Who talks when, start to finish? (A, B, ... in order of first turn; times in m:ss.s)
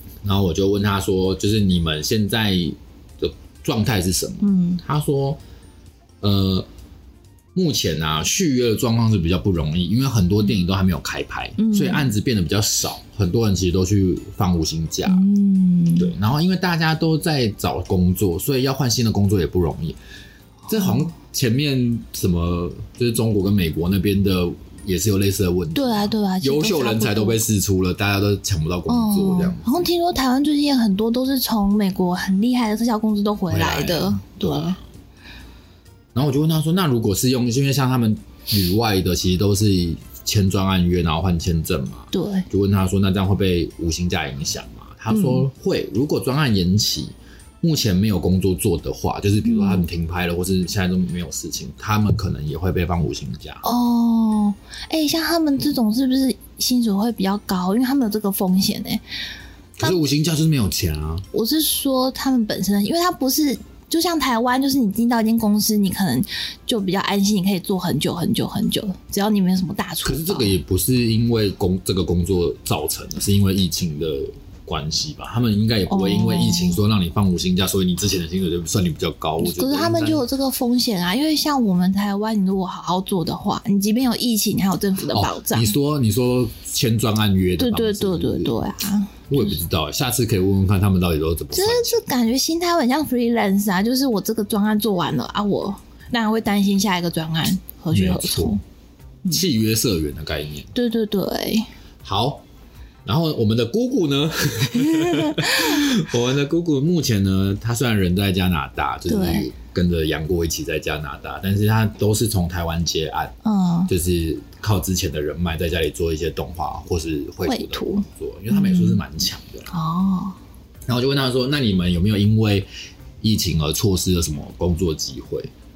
0:00.2-0:05.4 A
0:04.4-0:04.8 B
0:06.2-0:06.7 A
0:07.5-0:15.2 A
0:11.6-0:12.1 B
0:15.0-0:16.1 B
0:16.0-0:20.0 A
0:20.7-0:29.9 A
0:25.7-0:27.4 B
0:28.9-0:34.8 B
0:33.5-0:34.8 A
0:36.1-0:53.6 A
0:42.1-0:42.5 B
0:45.1-0:45.5 B
0:49.4-0:49.8 B
0:53.6-0:59.0 B
0:59.8-1:01.2 A
1:01.3-1:10.6 B
1:10.0-1:20.2 A
1:15.9-1:16.8 B
1:19.4-1:25.7 B
1:25.1-1:28.6 A
1:27.6-1:29.5 B
1:29.3-1:32.0 A
1:31.5-1:38.6 B
1:37.9-1:38.6 A
1:39.3-1:40.7 A
1:40.7-1:41.7 B
1:42.0-1:42.4 A
1:43.0-1:53.3 A
1:44.8-1:45.8 B
1:49.1-1:49.5 B
1:53.4-1:53.9 B
1:53.9-1:59.7 A
1:57.4-1:59.0 B
1:59.7-2:00.4 B
2:00.9-2:02.7 A
2:03.2-2:05.5 A